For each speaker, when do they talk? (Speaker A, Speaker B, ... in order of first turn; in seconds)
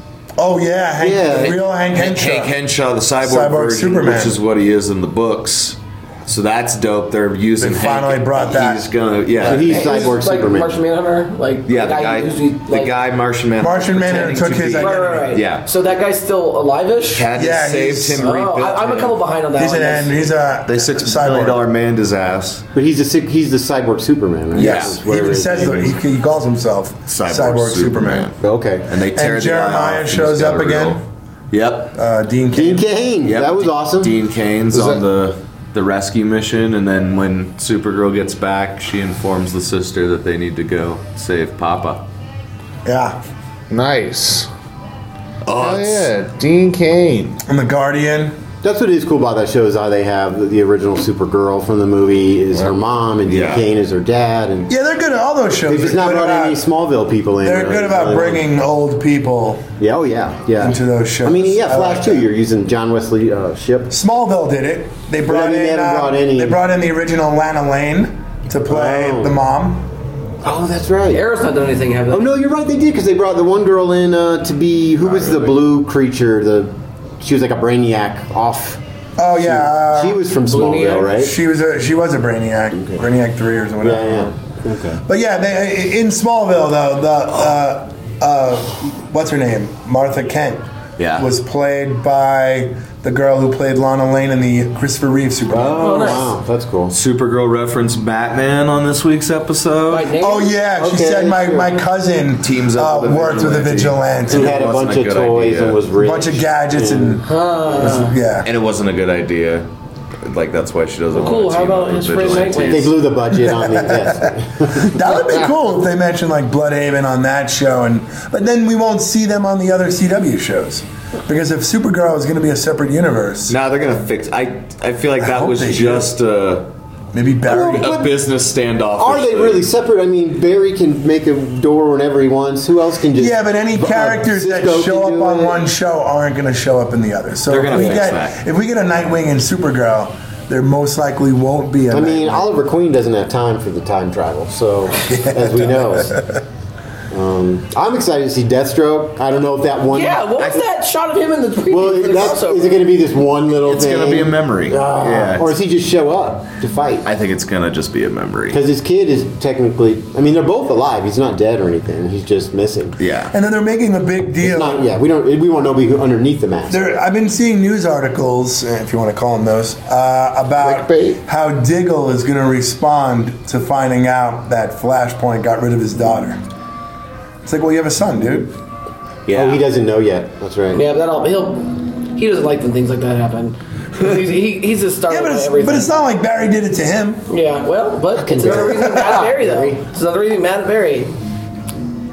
Speaker A: 0.4-2.5, 3.2-4.4, 7.6-8.8, 13.6-15.3, 17.3-18.2, 19.6-21.6, 24.5-28.3, 29.1-31.0, 31.9-32.9, 42.8-43.2, 47.5-48.4, 54.7-56.6, 57.4-59.7, 60.6-62.2, 63.9-69.9, 79.2-80.2, 81.1-84.3, 85.0-90.6, 91.2-96.2, 100.2-104.6, 106.0-108.5, 113.4-123.5, 125.2-126.1, 127.1-127.9, 133.2-142.5, 145.0-146.4, 163.3-164.8, 166.7-176.4, 177.4-178.5, 185.1-187.2, 188.4-189.2
Speaker B: 1.0-1.6, 9.4-10.8, 22.7-26.0, 28.4-28.9, 32.5-34.1, 48.6-54.7, 55.6-58.5, 59.8-63.9, 65.2-66.6, 68.7-69.4, 70.4-71.2, 72.1-78.8, 79.3-81.3, 82.7-83.0, 83.8-85.0, 95.5-96.9, 100.7-101.8, 104.3-107.2, 112.6-115.0, 127.5-128.1, 129.0-135.6, 137.7-138.1, 141.9-146.2, 147.1-150.3, 151.7-157.1, 158.5-163.0, 164.4-166.9, 179.3-180.8, 188.2-189.7
Speaker C: 1.3-9.9, 11.7-15.7, 17.1-19.2, 20.7-22.6, 24.5-25.0, 27.1-28.3, 28.9-31.9, 33.2-42.1, 45.4-46.1, 53.3-53.6, 75.0-75.6, 91.0-91.3, 96.9-100.1, 102.4-105.8, 108.4-109.7, 110.2-113.0, 123.5-126.7, 127.4-129.7, 137.5-138.4, 150.4-150.6, 153.6-155.5, 157.0-158.6, 163.0-163.3, 179.3-179.6
Speaker D: 9.5-12.9, 14.8-17.3, 18.2-20.3, 71.1-72.3, 80.5-81.1, 95.8-96.3, 99.9-100.5, 107.2-108.1, 111.1-112.9, 149.9-152.9, 180.7-186.0, 187.3-191.1
Speaker E: 34.7-35.0, 43.7-44.5, 45.5-47.4, 170.6-171.2